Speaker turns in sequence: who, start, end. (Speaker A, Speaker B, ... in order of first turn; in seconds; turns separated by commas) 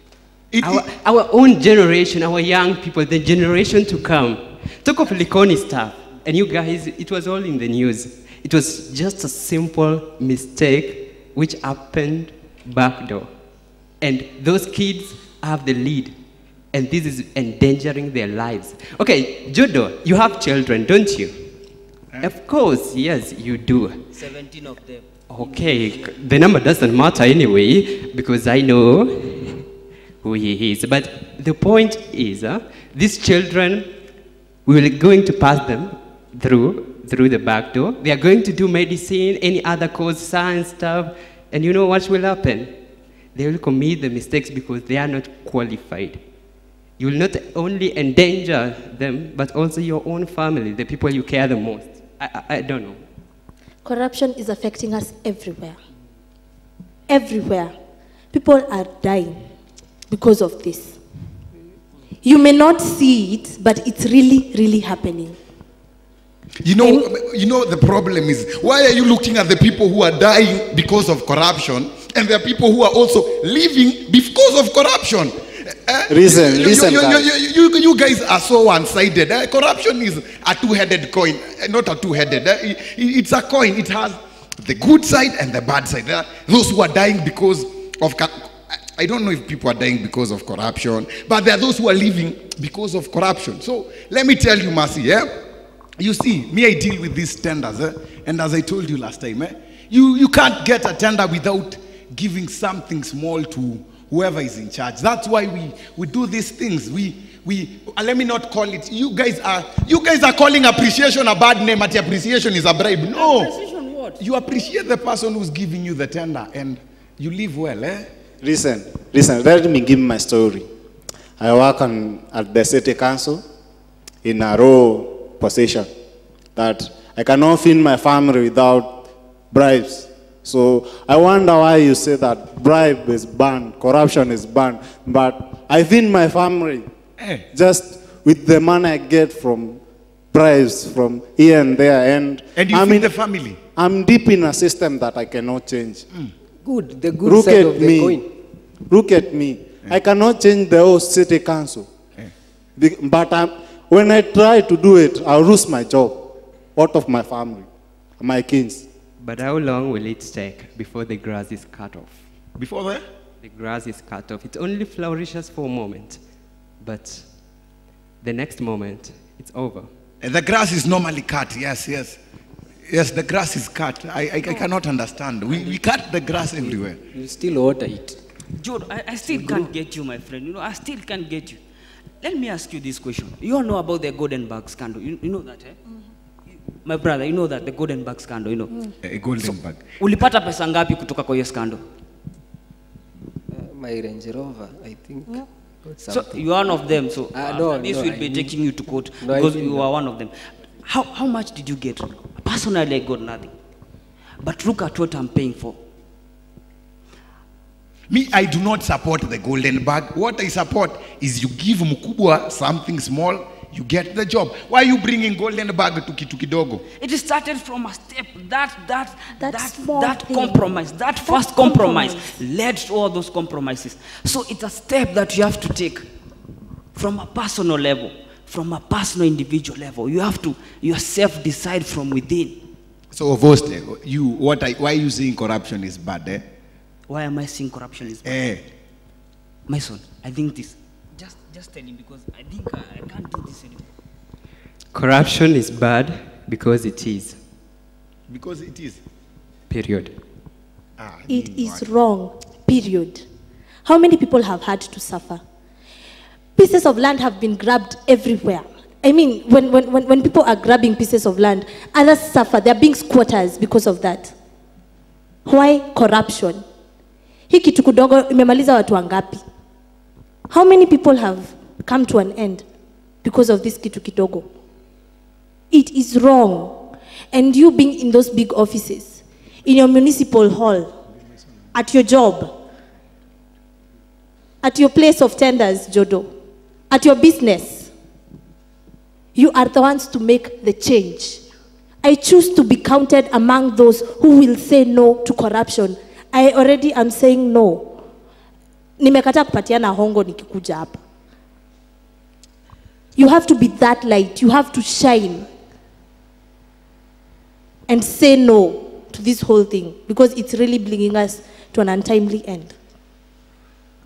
Speaker A: 0.5-0.9, Speaker B: 0.6-13.3, Speaker B: 14.0-16.2, Speaker B: 16.7-21.4, Speaker B: 22.2-24.0, Speaker C: 24.1-26.1, Speaker B: 25.3-29.6, Speaker B: 30.2-33.9, Speaker B: 34.7-42.8, Speaker B: 43.4-46.2, Speaker B: 47.0-53.0, Speaker D: 53.8-55.8, Speaker D: 57.1-57.8, Speaker D: 58.3-59.5, Speaker D: 60.1-61.0, Speaker D: 62.2-65.4, Speaker A: 66.6-95.4, Speaker D: 66.8-67.1, Speaker E: 76.1-77.3, Speaker A: 96.0-113.6, Speaker C: 113.2-114.2, Speaker A: 114.2-118.1, Speaker E: 118.4-120.7, Speaker E: 121.4-123.4, Speaker E: 124.2-125.9, Speaker E: 126.6-129.0, Speaker E: 129.5-136.9, Speaker A: 137.2-137.4, Speaker E: 137.5-139.8, Speaker E: 140.3-143.1, Speaker A: 142.6-143.6, Speaker E: 143.8-146.1, Speaker F: 146.6-148.3, Speaker E: 147.2-148.2, Speaker E: 148.9-151.9, Speaker E: 152.8-158.9, Speaker B: 159.2-162.2, Speaker A: 162.6-163.0, Speaker B: 163.4-166.2, Speaker B: 166.8-167.4, Speaker B: 168.2-169.9, Speaker A: 170.2-172.2, Speaker A: 172.9-177.0, Speaker F: 176.6-178.2, Speaker C: 178.6-181.6, Speaker F: 179.2-179.7, Speaker C: 182.2-185.8, Speaker C: 186.8-188.9, Speaker A: 189.0-189.9, Speaker C: 189.4-191.8, Speaker F: 193.5-196.6, Speaker C: 196.1-203.5, Speaker F: 197.3-198.6, Speaker F: 199.2-199.9, Speaker C: 204.4-205.8, Speaker A: 208.1-216.8, Speaker C: 217.0-226.1, Speaker D: 219.4-222.4, Speaker C: 226.9-232.6, Speaker A: 233.1-236.4, Speaker C: 237.1-238.5, Speaker A: 238.2-238.6, Speaker C: 239.7-243.9, Speaker B: 244.9-247.4, Speaker A: 248.3-249.0, Speaker B: 249.7-250.2, Speaker A: 251.0-251.8, Speaker D: 251.3-253.2, Speaker D: 253.8-255.4, Speaker D: 256.6-264.3, Speaker D: 265.5-266.6, Speaker D: 267.5-269.4, Speaker D: 270.5-272.7, Speaker D: 273.2-274.5, Speaker D: 275.7-280.9, Speaker D: 281.7-282.5, Speaker D: 284.6-286.3, Speaker D: 286.9-287.9, Speaker D: 289.4-291.4, Speaker D: 292.0-298.0, Speaker D: 299.0-301.0, Speaker D: 303.2-305.5, Speaker D: 307.9-312.8